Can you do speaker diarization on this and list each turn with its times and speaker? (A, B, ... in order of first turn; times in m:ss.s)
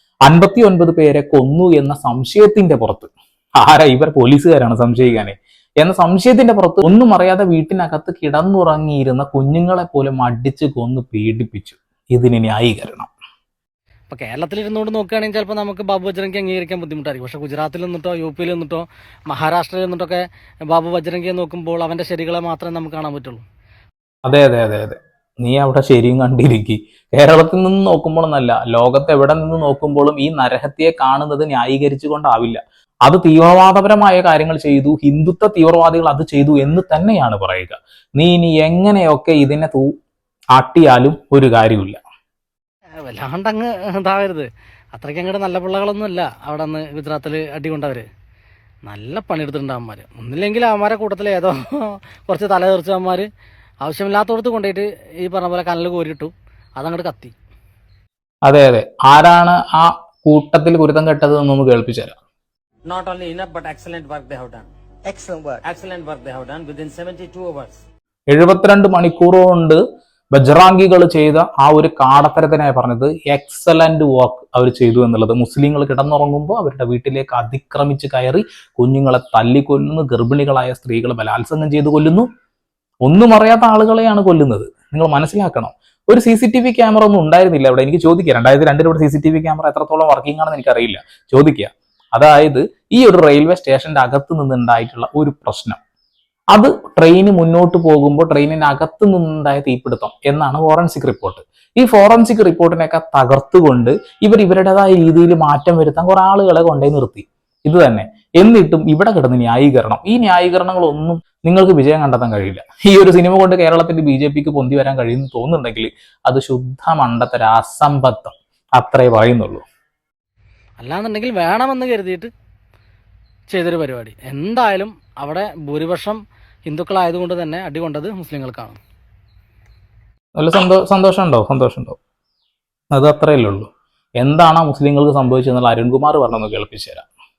0:00.3-0:13.1 A
0:14.1-0:23.4 B
0:24.3-0:39.9 A
0:40.5-0:42.0 A
0:43.0-0:48.1 B
0:48.9-0:53.3 B
0:53.8-0:57.3 B
0:58.5-1:02.2 A
1:02.8-1:07.8 C
1:08.3-1:09.8 A
1:10.3-1:22.3 A
1:23.0-1:35.8 A
1:36.5-1:59.6 A
2:00.8-2:02.3 B
2:03.5-2:08.8 B
2:10.4-2:12.0 A
2:12.9-2:17.0 A